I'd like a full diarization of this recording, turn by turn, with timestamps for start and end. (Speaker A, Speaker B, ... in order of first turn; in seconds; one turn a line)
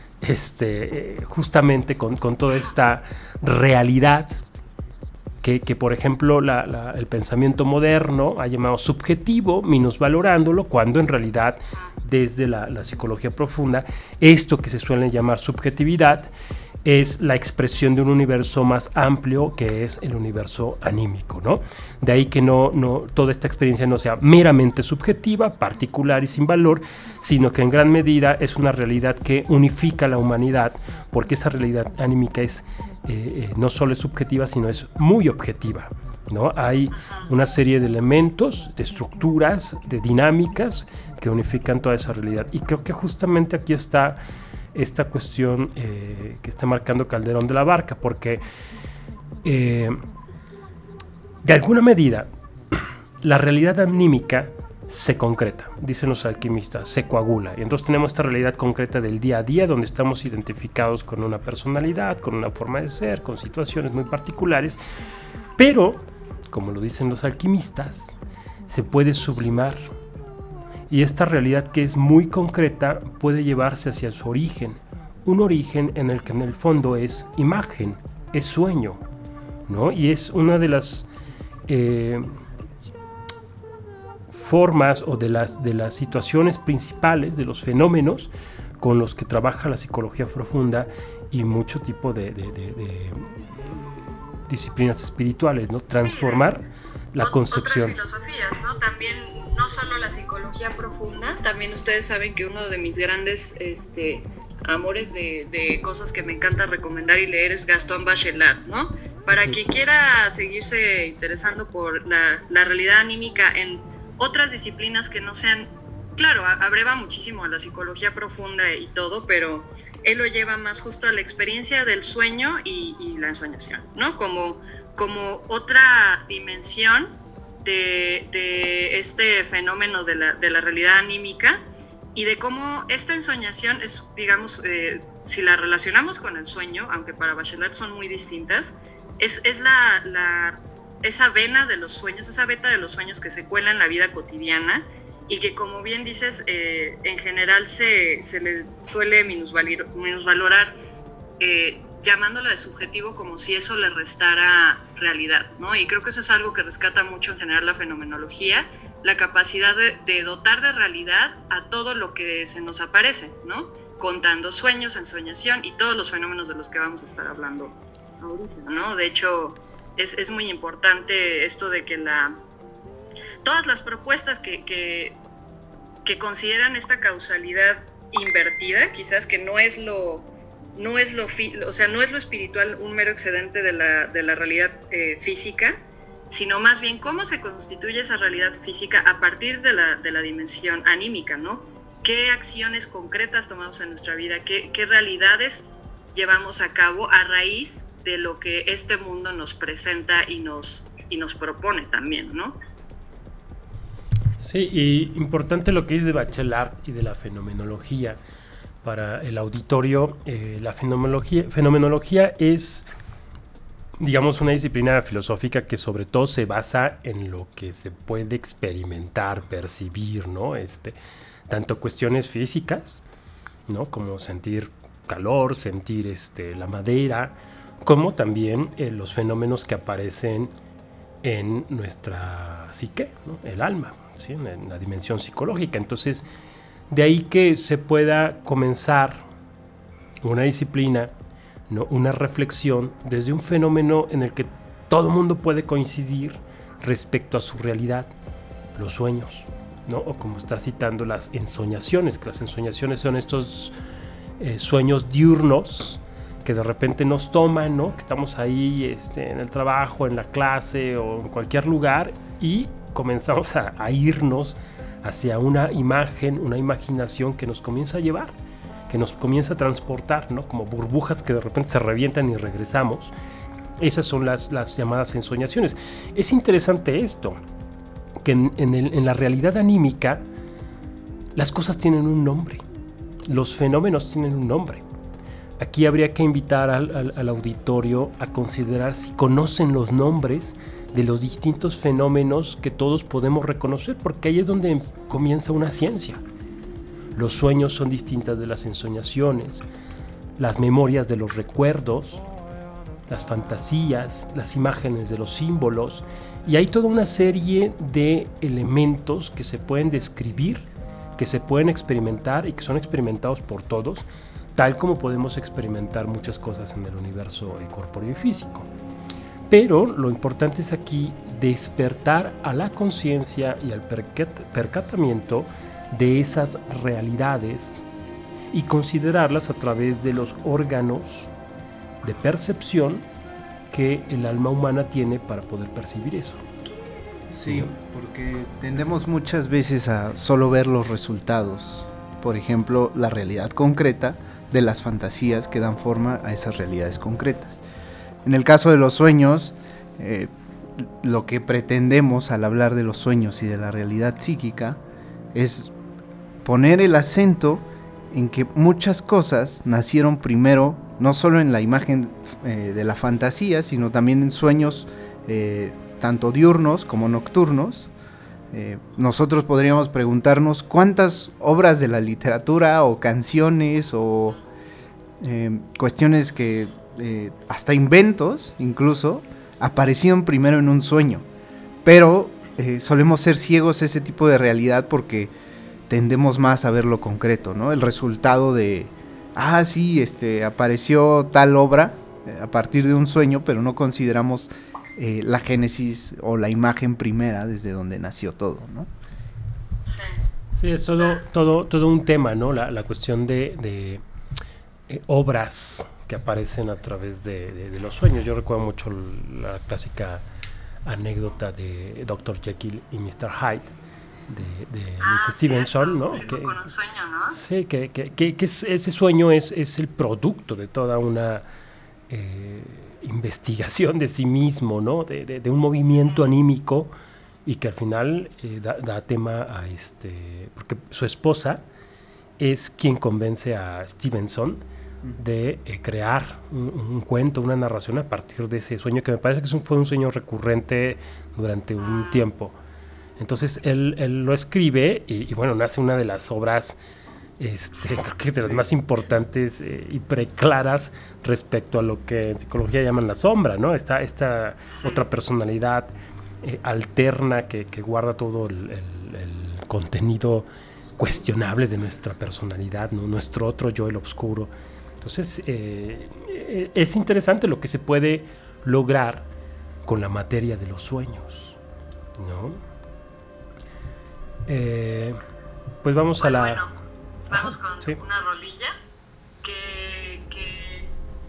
Speaker A: 0.2-4.4
Speaker A: 5.4-16.3
Speaker A: 16.9-44.2
Speaker B: 37.0-37.3
Speaker A: 44.8-48.4
Speaker A: 49.4-50.0
Speaker A: 51.4-64.8
Speaker A: 65.6-69.9
Speaker A: 70.9-79.0
Speaker A: 79.7-81.1
Speaker A: 81.7-82.4
Speaker A: 84.3-98.0
Speaker B: 96.0-96.5
Speaker B: 97.2-131.6
Speaker B: 132.2-150.8
Speaker B: 151.4-172.4
Speaker B: 173.4-175.2
Speaker B: 176.1-180.2
Speaker B: 180.8-185.8
Speaker B: 186.3-202.6
Speaker A: 204.4-208.2
Speaker A: 208.8-212.9
Speaker A: 214.0-221.0
Speaker A: 221.5-223.0
Speaker A: 223.7-230.5
Speaker A: 231.2-236.3
Speaker A: 236.9-239.2
Speaker A: 240.2-241.1
Speaker A: 241.7-248.1
Speaker A: 248.8-253.7
Speaker A: 254.4-268.3
Speaker A: 268.9-273.1
Speaker A: 273.8-277.4
Speaker A: 278.2-280.2
Speaker A: 281.4-282.6
Speaker A: 283.3-284.8
Speaker A: 285.6-296.2
Speaker A: 297.1-299.6
Speaker A: 300.4-302.2
Speaker A: 303.1-318.7
Speaker A: 319.5-327.8
Speaker A: 328.5-331.3
Speaker A: 332.0-333.0
Speaker A: 333.7-336.4
Speaker C: 337.3-347.6
Speaker A: 337.4-337.7
Speaker C: 348.2-354.8
Speaker C: 355.3-355.7
Speaker C: 356.4-367.9
Speaker C: 368.5-374.4
Speaker C: 375.2-381.2
Speaker C: 381.9-385.3
Speaker C: 385.9-398.9
Speaker B: 399.9-400.2
Speaker A: 400.5-404.0
Speaker A: 404.9-410.2
Speaker A: 410.9-413.7
Speaker A: 414.3-416.7
Speaker B: 415.0-417.4
Speaker A: 417.3-421.4
Speaker A: 422.1-426.9
Speaker A: 427.4-431.6
Speaker A: 432.4-434.6
Speaker A: 435.2-442.6
Speaker B: 441.8-442.2
Speaker A: 443.2-446.8
Speaker A: 447.4-455.9
Speaker B: 454.7-455.1
Speaker A: 456.4-464.5
Speaker A: 465.0-469.3
Speaker A: 469.9-471.6
Speaker A: 472.2-472.6
Speaker A: 474.5-475.2
Speaker A: 475.8-476.6
Speaker B: 476.2-476.8
Speaker A: 477.3-478.0
Speaker B: 477.3-478.7
Speaker B: 479.4-480.9